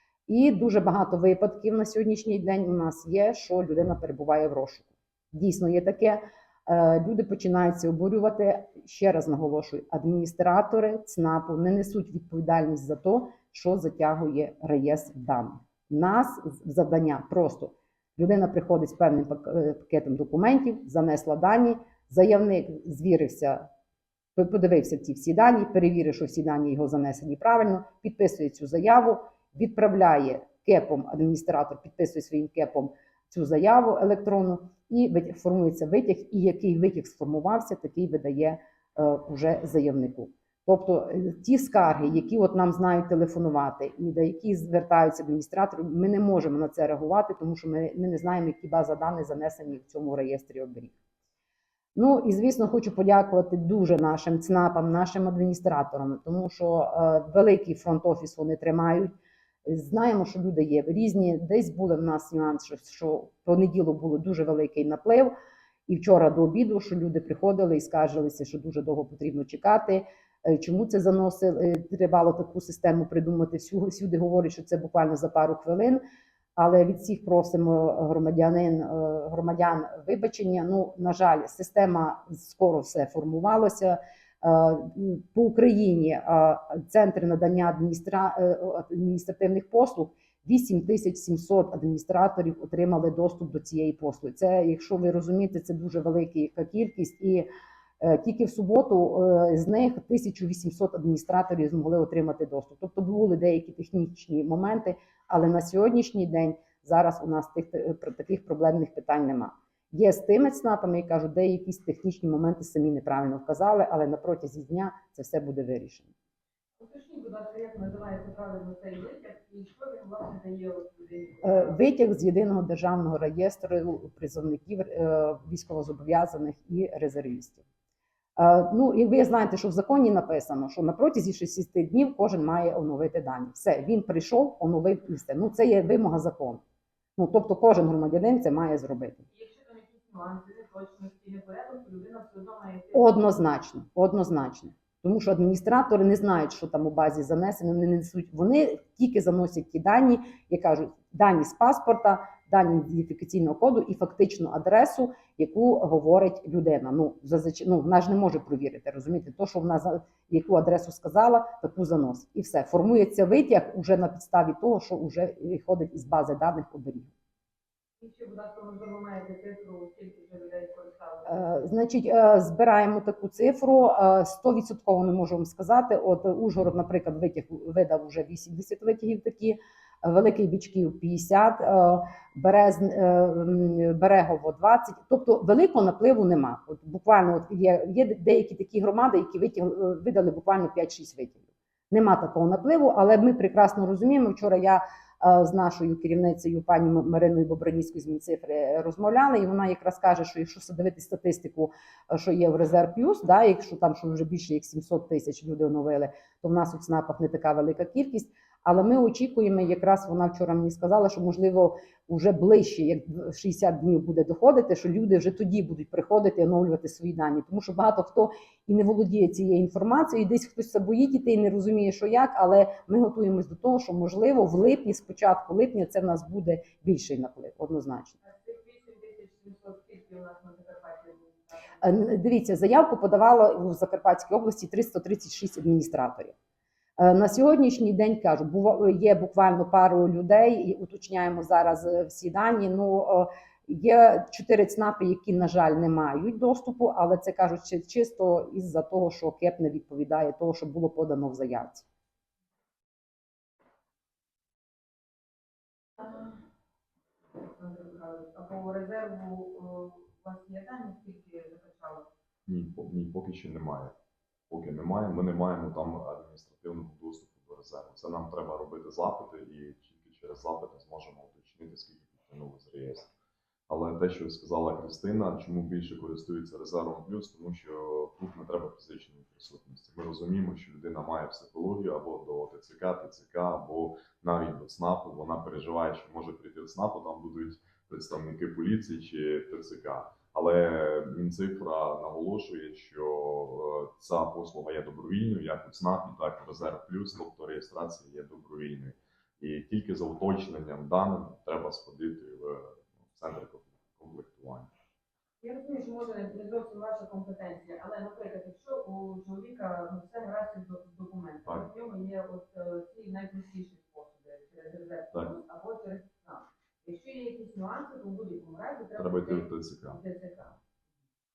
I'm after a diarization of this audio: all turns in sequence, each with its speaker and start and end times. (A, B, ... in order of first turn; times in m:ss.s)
0:00.3-0:23.7 A
0:24.4-0:50.9 A
0:52.0-0:59.1 A
0:59.6-1:05.3 A
1:05.9-1:16.0 A
1:16.6-1:37.5 A
1:38.0-1:56.1 A
1:56.8-2:01.8 B
2:01.4-2:07.6 A
2:08.4-2:16.6 A
2:17.2-2:19.3 A
2:19.3-2:23.1 B
2:22.9-2:47.1 A
2:48.0-2:51.3 B
2:51.3-3:48.2 A
3:48.2-3:51.8 B
3:51.8-3:56.4 A
3:57.0-4:11.9 A
4:16.0-4:16.4 B
4:17.4-4:22.1 B
4:22.5-4:23.9 C
4:24.5-4:33.1 C
4:33.7-5:04.7 C
5:05.4-5:20.6 B
5:19.0-5:20.0 C